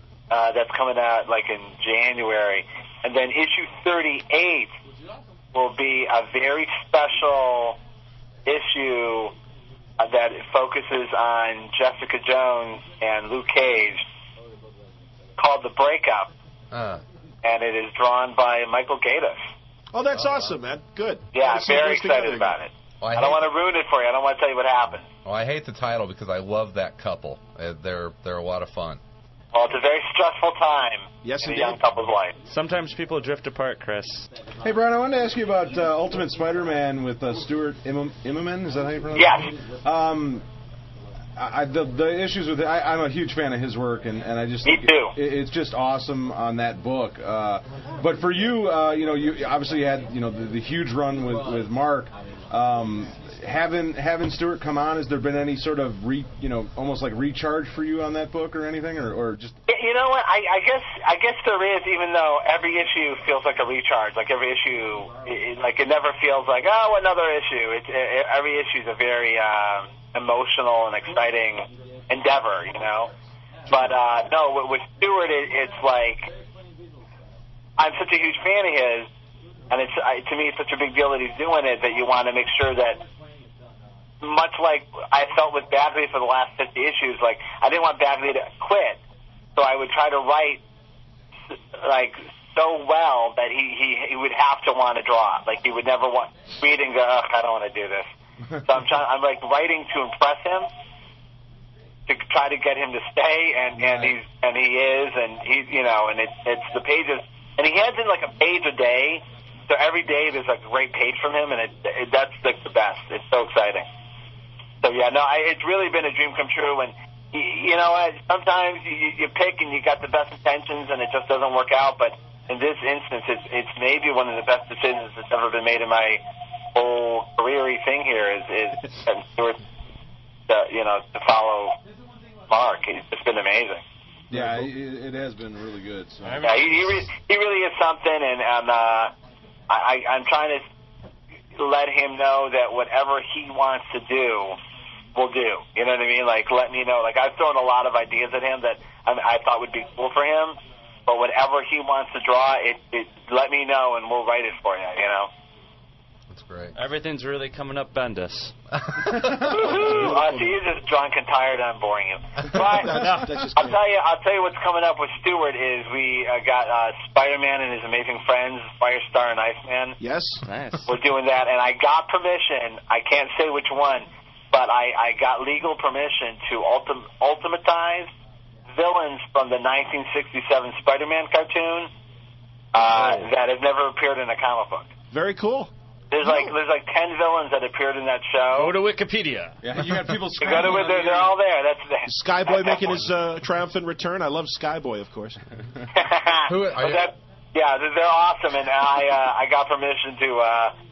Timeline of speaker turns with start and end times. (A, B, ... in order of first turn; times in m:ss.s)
0:00.3-0:04.7 A
0:05.5-0:07.8 A
0:08.4-0:09.3 A
0:10.0-0:14.0 A
0:15.4-0:16.3 A
0:16.7-0:17.0 B
0:17.4-0:19.4 A
0:19.9-0:22.6 C
0:21.3-0:25.1 A
0:23.0-0:23.4 B
0:25.2-0:29.0 B
0:29.5-0:32.4 A
0:31.2-0:31.8 C
0:32.4-0:34.3 D
0:34.6-0:40.5 E
0:39.1-0:39.6 A
0:41.4-0:59.6 E
0:44.6-0:45.2 A
0:59.7-1:13.1 A
1:13.7-1:16.3 A
1:17.8-1:19.1 A
1:19.7-1:23.0 A
1:24.2-1:29.0 A
1:29.6-1:30.6 A
1:31.8-1:38.1 A
1:38.6-1:40.7 A
1:42.1-1:53.9 A
1:54.8-2:06.2 A
2:06.8-2:09.6 A
2:10.5-2:11.8 A
2:12.5-2:13.8 A
2:14.3-2:16.6 E
2:16.2-2:16.8 D
2:16.4-2:19.1 A
2:19.7-2:20.6 A
2:21.6-2:24.6 A
2:25.2-2:35.3 A
2:36.3-2:36.8 B
2:36.8-2:38.5 D
2:39.4-2:50.0 A
2:39.6-2:40.5 C
2:42.5-2:43.8 C
2:50.0-2:50.4 C
2:50.4-2:50.9 D
2:50.9-2:58.1 A
2:58.7-3:01.9 A
3:02.7-3:04.9 A
3:05.1-3:05.7 C
3:06.1-3:08.8 A
3:08.5-3:09.6 D
3:09.6-3:11.3 E
3:10.4-3:13.0 A
3:10.4-3:11.2 D
3:12.1-3:15.4 C
3:15.9-3:20.8 A
3:16.5-3:17.1 B